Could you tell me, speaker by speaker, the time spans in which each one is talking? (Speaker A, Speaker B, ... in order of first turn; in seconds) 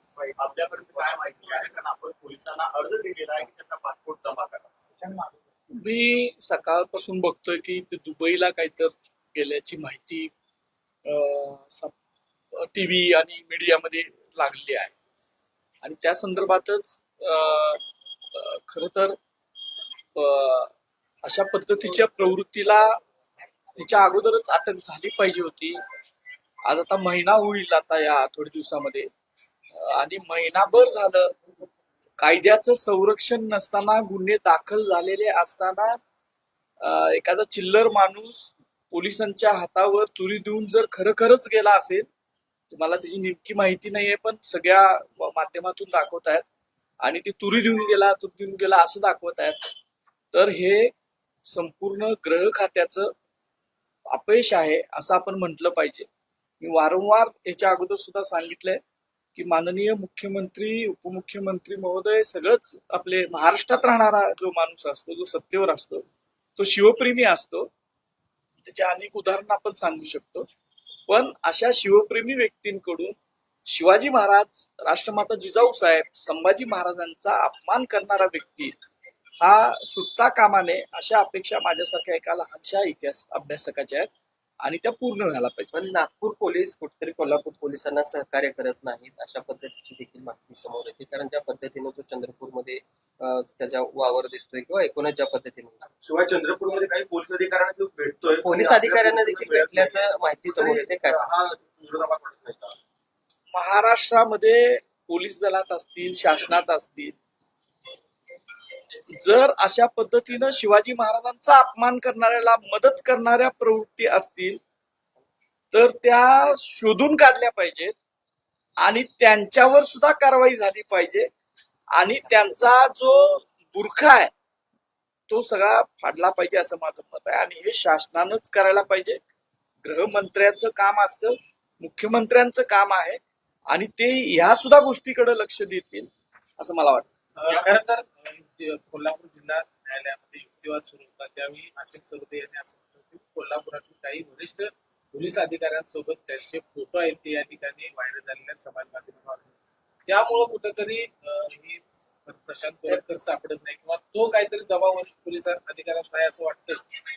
Speaker A: 0.3-4.9
Speaker B: 5.7-10.3, 11.0-11.9, 12.5-14.9, 15.8-17.8, 18.3-19.1, 20.1-20.7, 21.2-22.9, 23.8-25.8, 26.6-29.1, 29.7-31.3, 32.2-36.0, 36.8-42.0, 42.7-46.4, 47.0-49.7, 50.3-50.9, 51.5-53.1, 54.1-56.1, 56.6-58.8, 59.3-66.0, 66.6-67.7, 68.6-70.5, 71.1-73.1, 73.7-78.7, 79.4-84.1, 84.6-85.7, 103.5-107.1, 109.1-114.6, 115.7-117.9, 118.8-121.3, 121.9-124.3, 125.3-129.2, 129.8-137.1
Speaker C: 85.7-95.8, 98.4-101.3
Speaker D: 95.9-102.7
Speaker E: 137.3-149.5, 150.1-156.8